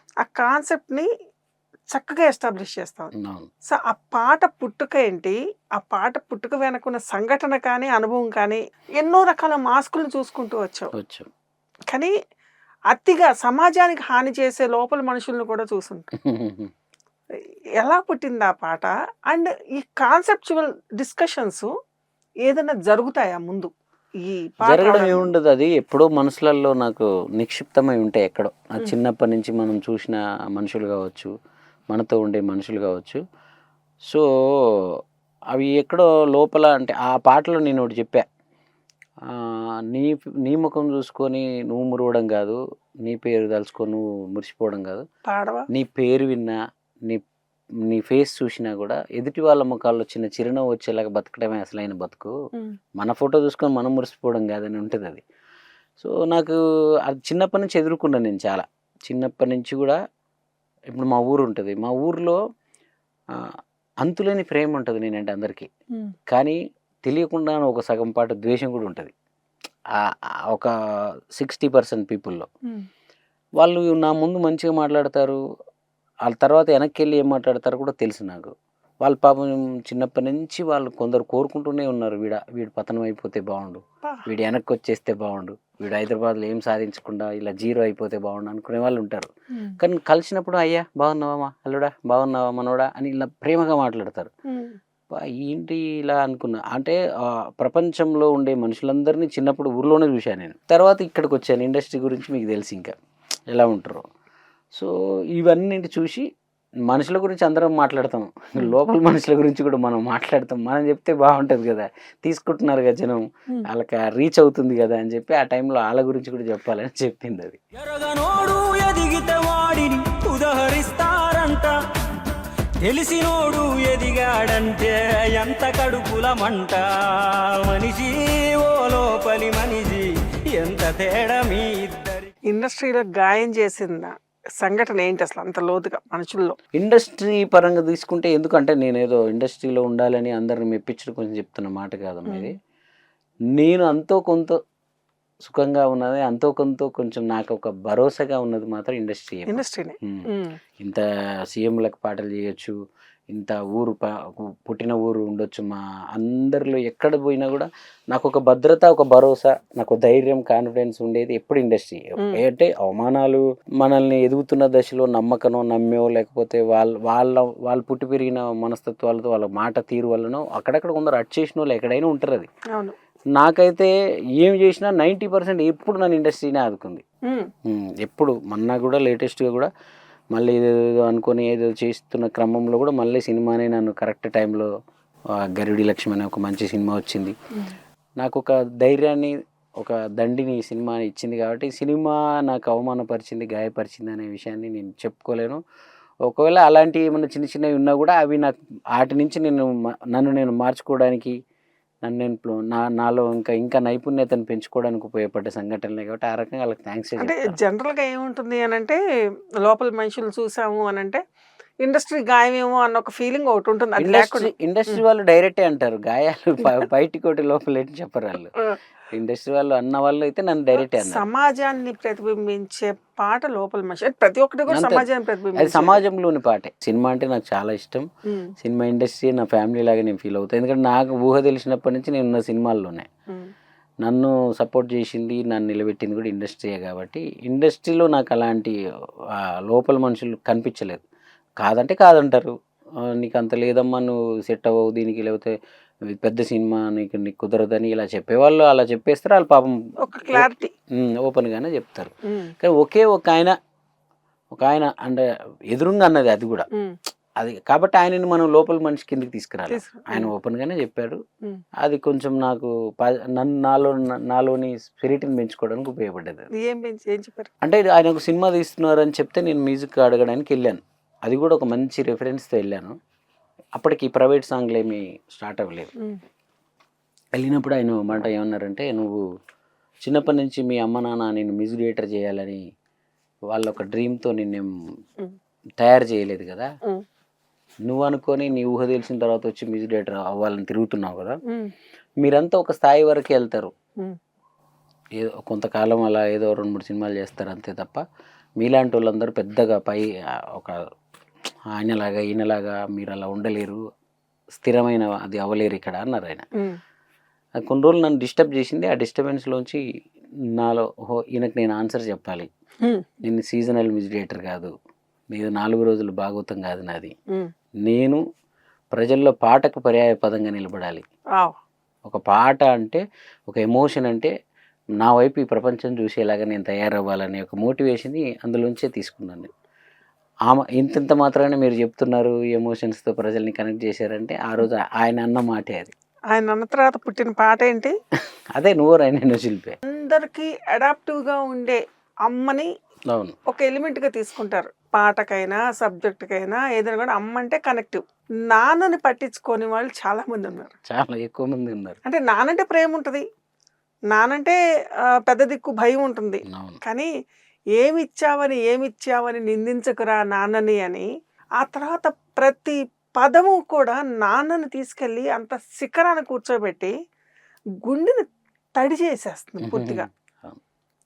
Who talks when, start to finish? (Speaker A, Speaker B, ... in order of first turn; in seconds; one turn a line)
Speaker A: 0.2-1.1
Speaker A: 1.9-3.1
Speaker B: 3.2-3.5
Speaker A: 3.7-10.9
Speaker B: 10.9-11.3
Speaker A: 12.9-16.1
Speaker B: 16.1-16.7
Speaker A: 17.8-21.7
Speaker A: 22.5-23.7
Speaker A: 24.2-25.3
Speaker B: 24.6-31.3
Speaker B: 31.9-33.2
Speaker B: 34.1-35.0
Speaker B: 35.5-38.2
Speaker B: 39.9-45.0
Speaker A: 45.3-45.7
Speaker B: 45.7-46.6
Speaker B: 47.9-52.4
Speaker B: 53.0-55.2
Speaker B: 56.0-60.0
Speaker B: 60.9-62.4
Speaker B: 64.0-65.7
Speaker B: 66.3-69.1
Speaker B: 69.9-70.7
Speaker B: 71.4-72.5
Speaker B: 73.6-75.4
Speaker B: 76.3-94.3
Speaker A: 94.5-94.8
Speaker B: 95.1-103.0
Speaker B: 103.5-104.0
Speaker B: 104.8-106.3
Speaker B: 106.9-117.6
Speaker C: 117.8-121.8
Speaker C: 122.8-132.3
Speaker A: 132.5-136.6
Speaker B: 136.8-142.5
Speaker B: 143.6-144.6
Speaker B: 145.5-150.3
Speaker A: 149.5-150.6
Speaker B: 150.8-152.8
Speaker B: 153.3-172.5
Speaker B: 173.4-177.0
Speaker B: 177.7-179.7
Speaker B: 180.3-184.7
Speaker B: 185.5-187.3
Speaker B: 188.2-195.6
Speaker B: 196.3-201.3
Speaker B: 202.0-207.6
Speaker A: 207.2-209.0
Speaker A: 209.6-211.2
Speaker A: 211.8-215.0
Speaker B: 214.0-218.5
Speaker B: 219.1-221.3
Speaker A: 220.8-226.0
Speaker B: 224.7-225.1
Speaker B: 225.6-228.1
Speaker A: 228.3-228.5
Speaker B: 228.6-233.1
Speaker B: 234.0-238.8
Speaker B: 239.3-241.0
Speaker B: 241.6-242.5
Speaker B: 243.1-245.5
Speaker B: 246.1-249.8
Speaker A: 250.0-250.7
Speaker B: 250.3-253.6
Speaker A: 252.3-252.5
Speaker B: 254.5-256.7
Speaker B: 257.4-261.2
Speaker A: 259.7-260.3
Speaker B: 261.8-266.5
Speaker A: 266.6-267.5
Speaker B: 267.6-273.0
Speaker B: 273.8-275.9
Speaker B: 277.4-279.2
Speaker B: 280.0-282.6
Speaker B: 283.5-284.7
Speaker B: 285.8-286.7
Speaker B: 287.9-291.4
Speaker A: 291.5-291.7
Speaker B: 292.2-293.7
Speaker B: 295.2-298.0
Speaker B: 298.6-300.9
Speaker B: 301.7-303.8
Speaker B: 304.5-306.5
Speaker B: 307.6-309.8
Speaker B: 310.6-312.5
Speaker A: 312.8-313.2
Speaker B: 313.2-314.7
Speaker B: 315.3-317.1
Speaker B: 317.9-318.2
Speaker B: 318.9-321.0
Speaker B: 322.1-324.3
Speaker B: 325.0-329.5
Speaker B: 330.5-335.9
Speaker A: 336.3-337.9
Speaker B: 338.6-339.8
Speaker A: 339.9-342.7
Speaker B: 343.1-343.4
Speaker A: 343.5-350.7
Speaker B: 350.9-352.0
Speaker A: 352.1-353.2
Speaker A: 354.1-354.6
Speaker A: 355.1-357.1
Speaker B: 356.5-356.8
Speaker A: 357.8-361.1
Speaker A: 361.6-366.9
Speaker A: 367.9-368.3
Speaker A: 368.8-370.1
Speaker B: 369.6-370.6